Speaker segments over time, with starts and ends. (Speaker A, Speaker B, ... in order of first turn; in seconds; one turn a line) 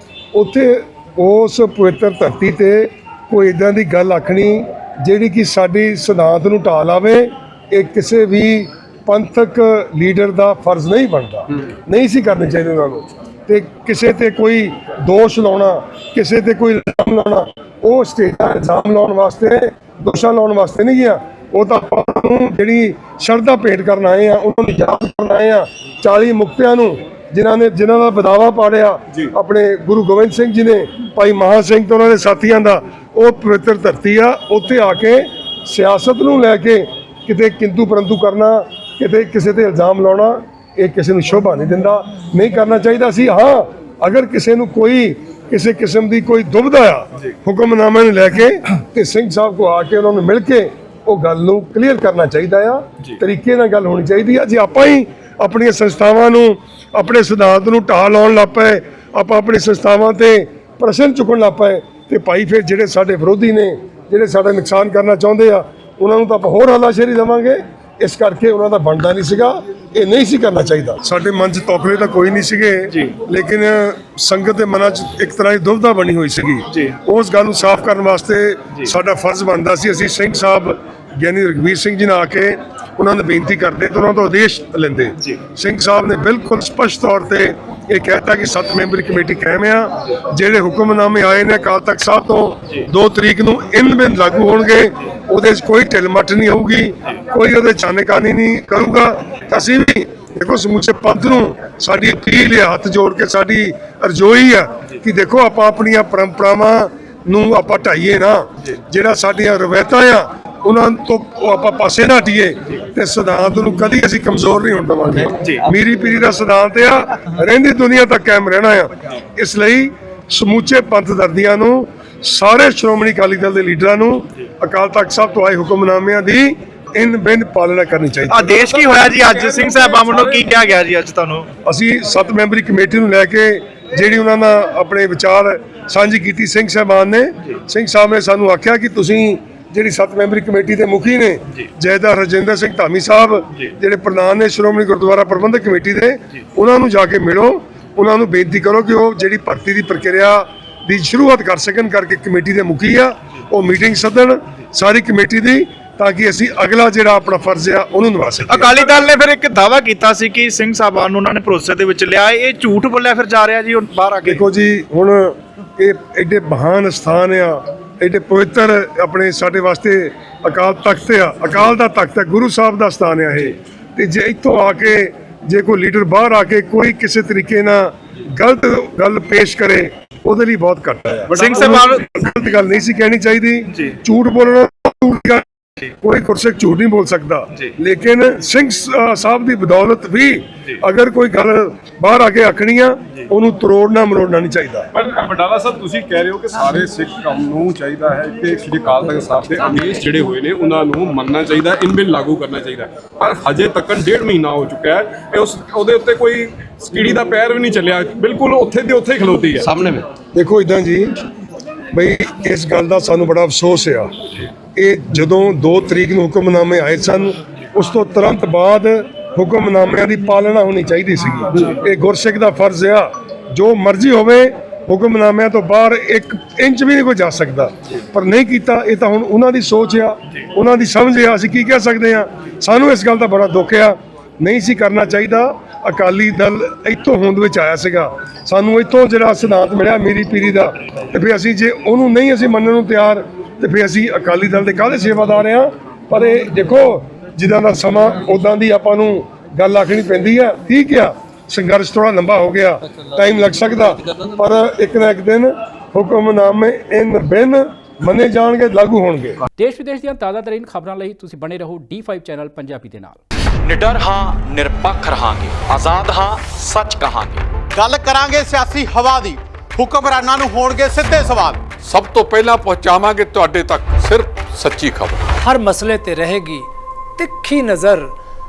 Speaker A: 0.3-128.6
Speaker B: 128.3-131.5
Speaker C: 128.7-130.4
Speaker A: 131.7-158.8
Speaker B: 158.5-164.4
Speaker A: 164.2-194.9
Speaker B: 181.3-182.1
Speaker C: 194.9-210.1
Speaker A: 210.3-211.2
Speaker A: 211.9-214.1
Speaker A: 214.8-259.4
Speaker D: 259.6-263.2
Speaker E: 263.6-267.4
Speaker F: 267.7-271.6
Speaker G: 271.9-275.2
Speaker H: 275.4-278.1